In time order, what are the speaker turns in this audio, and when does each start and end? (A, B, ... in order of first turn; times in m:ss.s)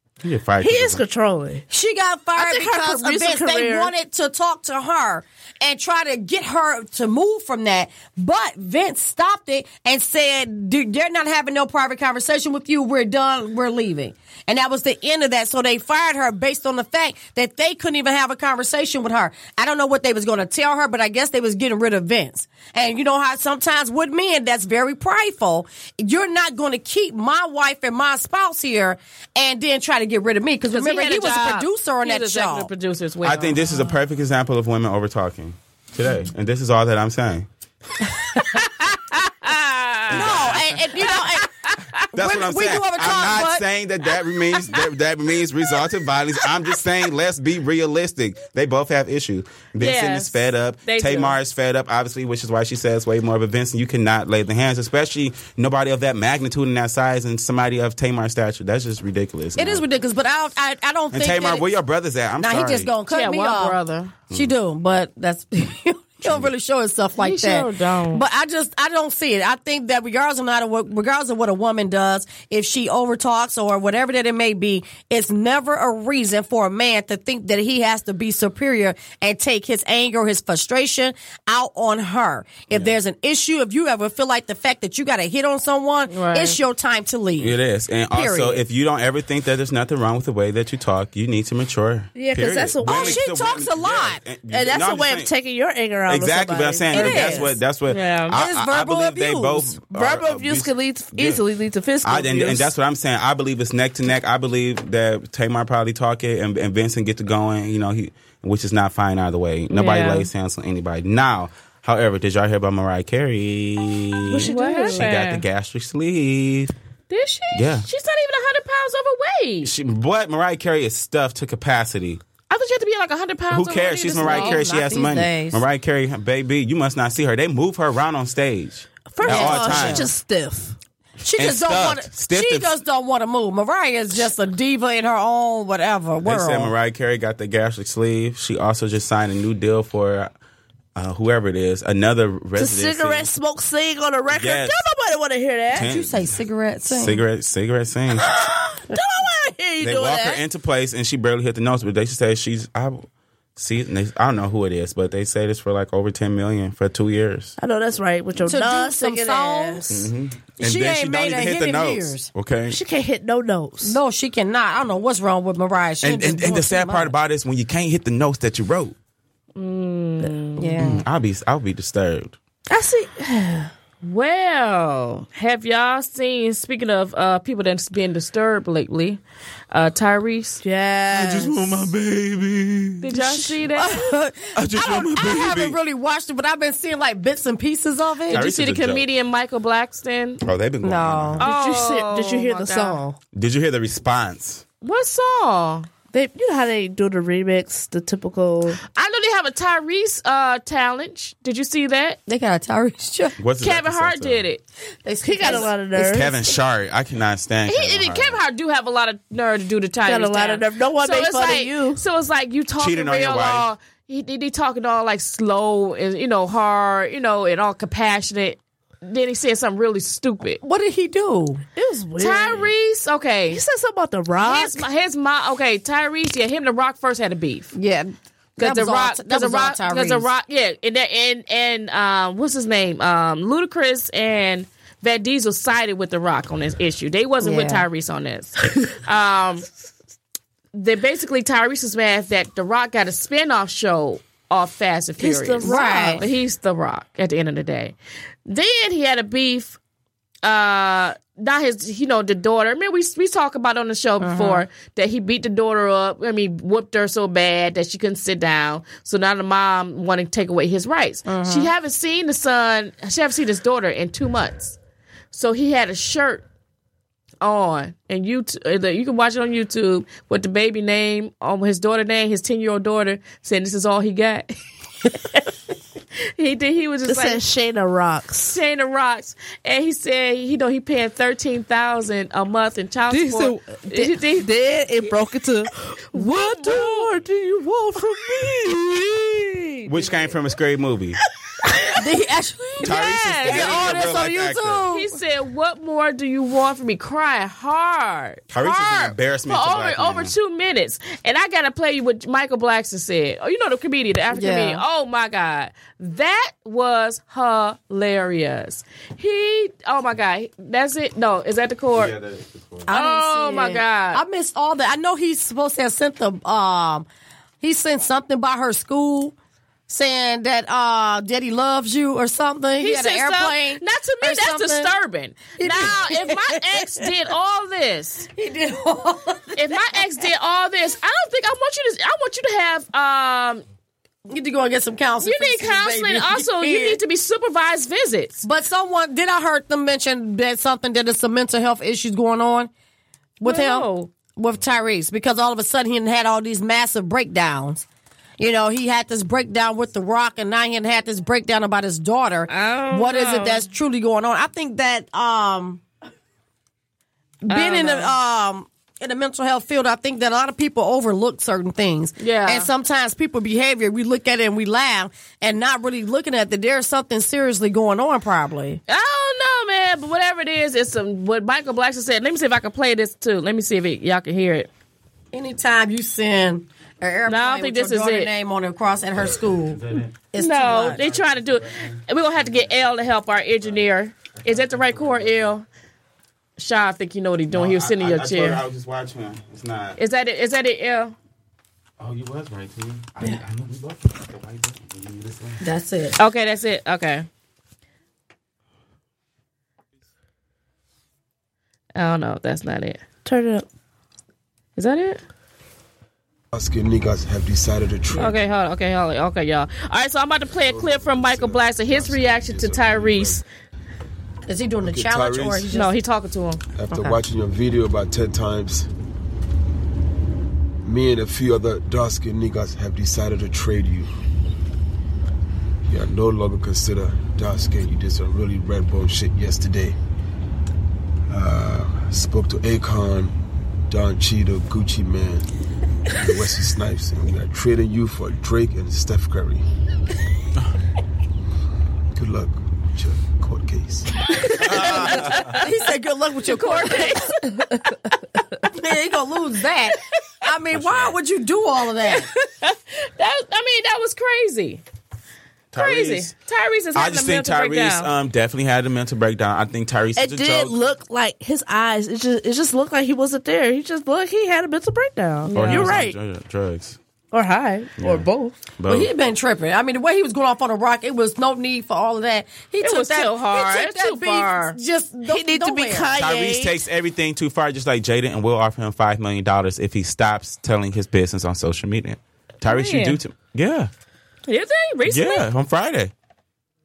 0:00.2-0:01.0 A
0:00.6-0:01.6 B
0:01.7-0:32.7 C
0:02.4-0:03.9 B
0:30.7-0:33.8 D
0:33.2-0:37.5 A
0:38.3-0:42.1 D
0:40.1-0:40.9 A
0:40.1-0:41.5 C
0:42.1-0:59.8 A
0:42.2-0:43.6 C
0:49.8-0:51.4 D
0:59.6-1:01.7 C
1:01.1-1:02.9 A
1:02.4-1:03.8 C
1:03.1-1:04.1 D
1:04.3-1:27.6 C
1:06.2-1:06.5 A
1:07.2-1:08.2 D
1:26.1-1:26.6 D
1:27.4-1:35.3 A
1:28.1-1:28.6 C
1:32.2-1:33.2 B
1:32.8-1:34.2 C
1:34.5-1:37.5 B
1:36.1-1:41.4 A
1:36.9-1:37.5 C
1:37.9-1:38.4 D
1:38.3-1:39.7 C
1:39.9-1:42.7 B
1:42.0-1:56.7 A
1:49.7-1:50.3 D
1:54.3-1:55.0 B
1:54.4-1:55.4 D
1:57.1-1:59.7 D
1:57.5-1:57.9 A
1:59.6-2:02.2 A
2:02.5-2:04.6 D
2:03.5-2:10.1 A
2:04.2-2:05.6 C
2:09.1-2:10.8 B
2:09.2-2:10.1 C
2:11.2-2:16.7 C
2:11.4-2:12.8 A
2:16.2-2:20.3 A
2:21.0-2:23.3 A
2:22.6-2:25.9 B
2:24.3-2:24.8 A
2:25.7-2:28.4 A
2:25.8-2:27.2 C
2:28.2-2:30.4 B
2:29.8-2:37.6 A
2:37.6-2:39.9 B
2:38.4-2:40.0 C
2:39.9-2:42.8 A
2:40.6-2:42.3 C
2:42.7-2:44.0 B
2:43.8-2:47.1 C
2:46.0-2:49.0 A
2:49.6-2:50.8 D
2:50.6-2:51.0 C
2:50.8-2:52.4 A
2:52.7-2:53.7 B
2:54.0-3:00.6 D
3:00.6-3:01.9 B
3:01.1-3:03.1 A
3:03.0-3:04.0 D
3:03.2-3:03.6 B
3:03.8-3:08.5 C
3:04.5-3:05.8 A
3:08.3-3:10.4 D
3:08.3-3:09.1 A
3:10.4-3:11.4 A
3:10.8-3:11.5 C
3:11.4-3:13.0 D
3:11.4-3:13.2 B
3:13.3-3:14.6 A
3:14.8-3:15.9 D
3:16.1-3:18.8 B
3:18.9-3:22.2 D
3:22.3-3:23.4 C
3:23.4-3:24.4 A
3:23.6-3:24.6 D
3:25.0-3:25.7 C
3:25.2-3:26.4 B
3:26.0-3:28.4 A
3:27.7-3:40.6 D
3:30.0-3:32.0 B
3:32.8-3:33.7 A
3:40.6-3:41.6 C
3:41.8-3:42.7 B
3:42.2-3:43.6 D
3:43.5-3:44.9 B
3:44.4-3:47.7 D
3:47.7-3:50.3 C
3:48.6-3:59.7 D
3:57.4-3:57.8 C
4:00.7-4:08.0 D
4:05.2-4:06.3 B
4:05.7-4:06.2 C
4:08.5-4:09.8 D
4:10.4-4:24.8 D
4:14.2-4:14.6 C
4:21.3-4:21.7 C
4:25.3-4:26.4 D
4:27.4-4:34.6 D
4:36.4-4:37.4 D
4:37.1-4:38.6 B
4:38.5-4:44.5 D
4:43.1-4:49.9 B
4:46.1-4:47.1 D
4:49.8-4:51.2 A
4:51.6-4:52.0 B
4:51.9-4:55.2 C
4:52.8-4:54.9 A
4:52.8-4:54.2 D
4:54.9-5:12.1 D
4:58.5-5:00.3 A
5:04.3-5:04.8 C
5:12.0-5:12.9 A
5:12.9-5:17.1 C
5:12.9-5:14.2 D
5:17.6-5:19.4 C
5:19.9-5:24.9 C
5:22.8-5:28.3 D
5:25.6-5:27.1 C
5:28.4-5:30.0 C
5:29.6-5:33.6 D
5:34.3-5:37.0 C
5:35.2-5:38.4 D
5:38.4-5:42.7 C
5:43.4-5:47.8 C
5:43.4-5:44.1 D
5:48.4-5:55.8 C
5:52.5-5:53.7 D
5:57.4-6:08.8 C
5:57.5-5:58.2 D
6:02.2-6:02.7 D
6:08.9-6:14.7 D
6:15.3-6:21.0 C
6:17.3-6:18.3 D
6:19.2-6:20.2 A
6:20.4-6:25.7 D
6:20.8-6:22.8 A
6:24.4-6:25.5 A
6:26.6-6:28.6 D
6:27.5-6:30.0 A
6:30.0-6:31.2 D
6:32.0-6:35.6 A
6:35.6-6:36.2 C
6:36.2-6:37.3 D
6:42.0-6:43.0 D
6:43.2-6:43.7 B
6:44.8-6:45.2 D
6:46.5-6:48.4 E
6:48.1-6:53.4 D
6:50.6-6:53.4 E
6:54.5-6:55.9 C
6:54.8-6:55.7 E
6:55.7-6:56.6 D
6:56.8-6:58.9 E
7:00.8-7:04.1 E
7:05.9-7:10.0 E
7:11.3-7:13.4 E
7:13.9-7:15.5 E
7:16.1-7:19.6 E
7:22.1-7:24.1 E
7:24.5-7:25.6 D
7:24.6-7:25.6 A
7:24.6-7:27.2 C
7:26.5-7:28.2 D
7:28.7-7:32.3 C
7:30.7-7:31.2 A
7:32.0-7:34.8 D
7:35.7-7:36.3 A
7:35.7-7:38.1 D
7:37.0-7:40.8 A
7:40.2-7:46.2 B
7:45.5-7:46.0 D
7:45.6-7:47.0 A
7:47.3-7:48.6 B
7:48.0-7:48.3 A
7:48.8-7:49.1 A
7:48.9-7:56.1 C
7:52.8-7:54.8 D
7:55.3-7:56.8 B
7:56.2-8:03.9 A
8:02.6-8:03.2 D
8:04.5-8:05.5 D
8:05.1-8:06.1 A